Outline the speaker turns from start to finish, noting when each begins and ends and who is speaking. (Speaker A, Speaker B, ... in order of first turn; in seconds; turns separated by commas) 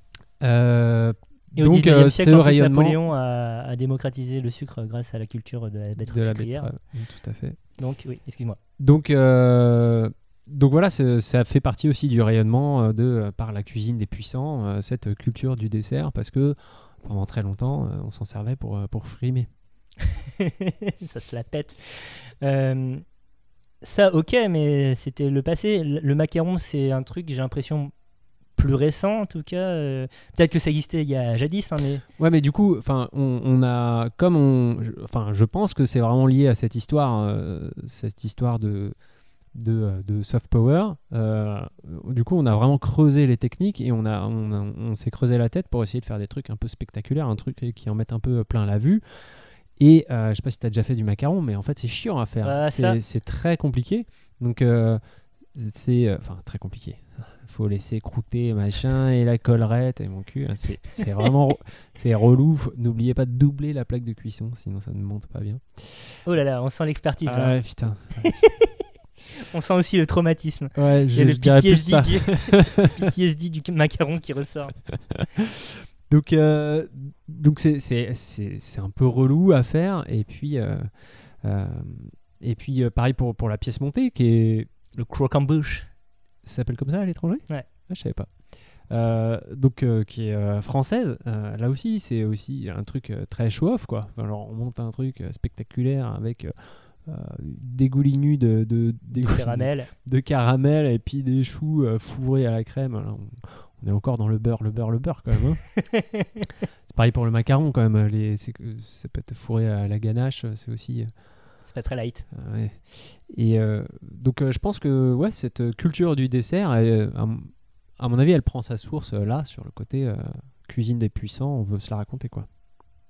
Speaker A: 0.4-3.0, Speaker B: 1.6-6.7, Speaker A: 6.0-7.6, Speaker B: 7.8-8.6, Speaker A: 8.8-19.5, Speaker B: 20.4-23.0, Speaker B: 23.8-27.9, Speaker B: 28.6-32.0, Speaker A: 32.2-38.9, Speaker A: 39.5-49.0, Speaker A: 49.8-55.0, Speaker B: 52.4-53.0, Speaker A: 55.5-66.2, Speaker B: 66.2-67.5, Speaker A: 67.2-68.4, Speaker B: 68.2-68.7, Speaker B: 69.5-74.8, Speaker A: 70.8-72.9, Speaker A: 76.1-84.7, Speaker B: 85.0-85.9, Speaker A: 86.4-88.3, Speaker A: 88.9-105.6, Speaker B: 99.1-99.9, Speaker A: 106.9-111.1, Speaker B: 111.7-112.2, Speaker A: 112.3-122.5